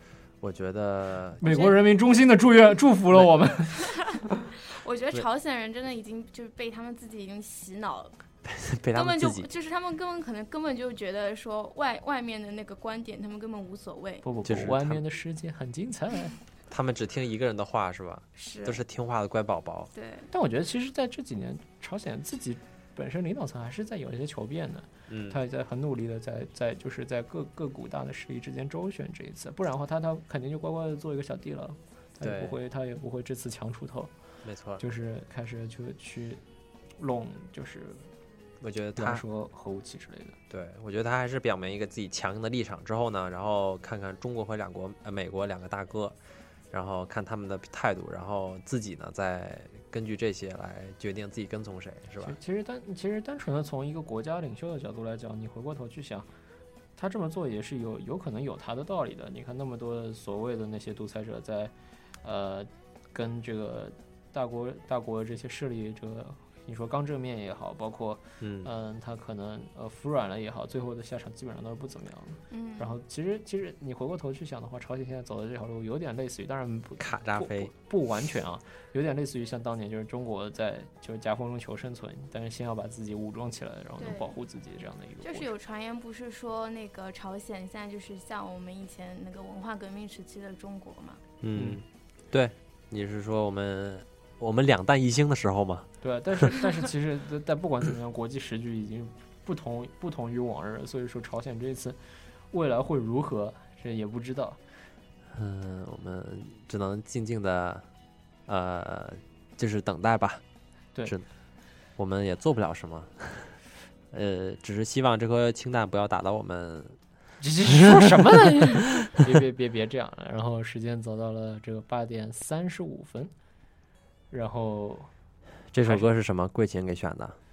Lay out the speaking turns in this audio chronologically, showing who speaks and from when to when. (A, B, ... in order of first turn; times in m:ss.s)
0:00.4-0:01.6 A
0:01.4-0:04.0 B
0:01.5-0:01.7 C
0:04.8-0:08.1 C
0:08.5-0:09.5 A
0:08.9-0:14.2 C
0:14.2-0:16.3 B
0:14.4-0:15.0 A
0:16.7-0:19.9 A
0:18.4-0:18.8 C
0:19.9-0:20.3 C
0:20.3-0:34.1 B
0:25.1-0:25.4 A
0:32.2-0:32.6 A
0:34.4-0:34.8 A
0:34.8-0:36.4 B
0:37.0-0:38.1 B
0:38.6-0:39.2 A
0:39.0-0:40.4 B
0:40.5-0:46.2 A
0:46.7-0:52.4 A
0:52.2-0:56.3 B
0:57.0-1:01.7 B
1:02.2-1:25.5 B
1:08.4-1:08.7 A
1:12.5-1:12.9 C
1:17.0-1:17.7 A
1:24.0-1:24.4 C
1:25.2-1:31.2 C
1:31.4-1:36.5 A
1:31.5-1:31.8 B
1:36.0-1:42.0 B
1:42.5-1:44.6 B
1:45.3-1:47.8 A
1:48.5-1:50.4 A
1:52.0-1:53.6 A
1:54.1-1:57.0 A
1:57.4-2:03.3 B
1:57.7-1:59.4 A
2:04.3-2:05.1 B
2:05.7-2:07.4 A
2:05.8-2:06.0 B